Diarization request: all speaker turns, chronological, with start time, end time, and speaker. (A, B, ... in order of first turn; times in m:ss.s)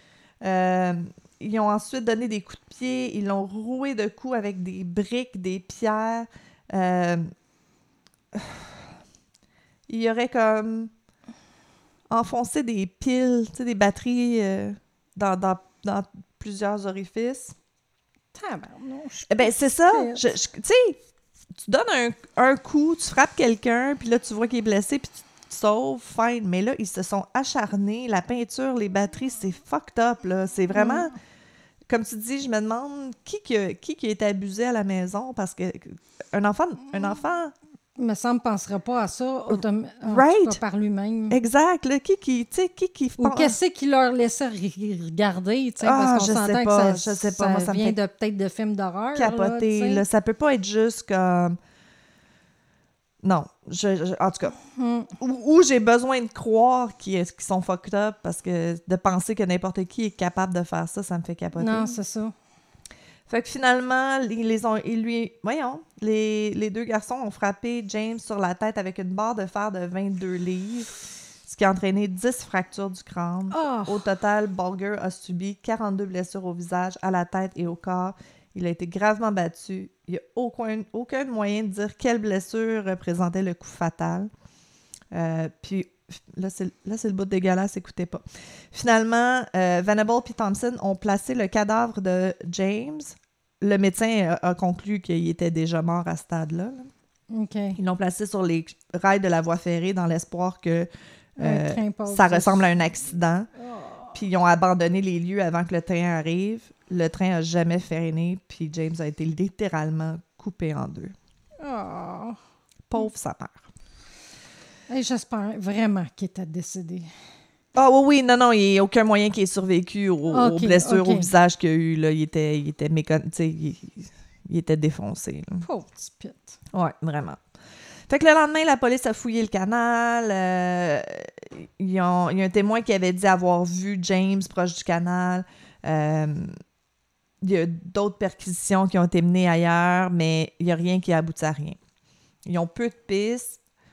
0:00.4-0:07.3 A
0:08.3-0:08.7 A
0:09.9-0:10.9 A
0:12.1-0:17.5 A
0:18.3-0:20.2 B
0:19.3-0:21.0 A
0:21.6-0:31.1 A
0:30.7-0:31.1 B
0:31.9-0:37.5 A
0:38.0-0:41.4 B
0:39.5-0:40.6 A
0:41.3-0:43.6 A
0:43.2-0:50.0 B
0:45.8-0:48.0 A
0:49.2-0:51.6 A
0:53.2-0:54.6 A
0:54.7-0:55.1 B
0:55.2-1:02.0 A
1:01.6-1:02.3 B
1:03.3-1:24.3 A
1:13.5-1:14.0 B
1:25.1-1:36.9 A
1:37.3-1:37.8 B
1:37.8-1:43.5 A
1:41.4-1:42.7 B
1:43.6-1:44.1 B
1:44.1-1:51.1 A
1:51.6-1:52.4 B
1:52.9-1:53.6 A
1:54.9-1:57.1 B
1:57.7-2:05.6 A
2:00.3-2:01.3 B
2:05.6-2:06.6 B
2:06.7-2:07.4 A
2:08.1-2:16.5 A
2:17.4-2:21.8 A
2:22.4-2:23.6 A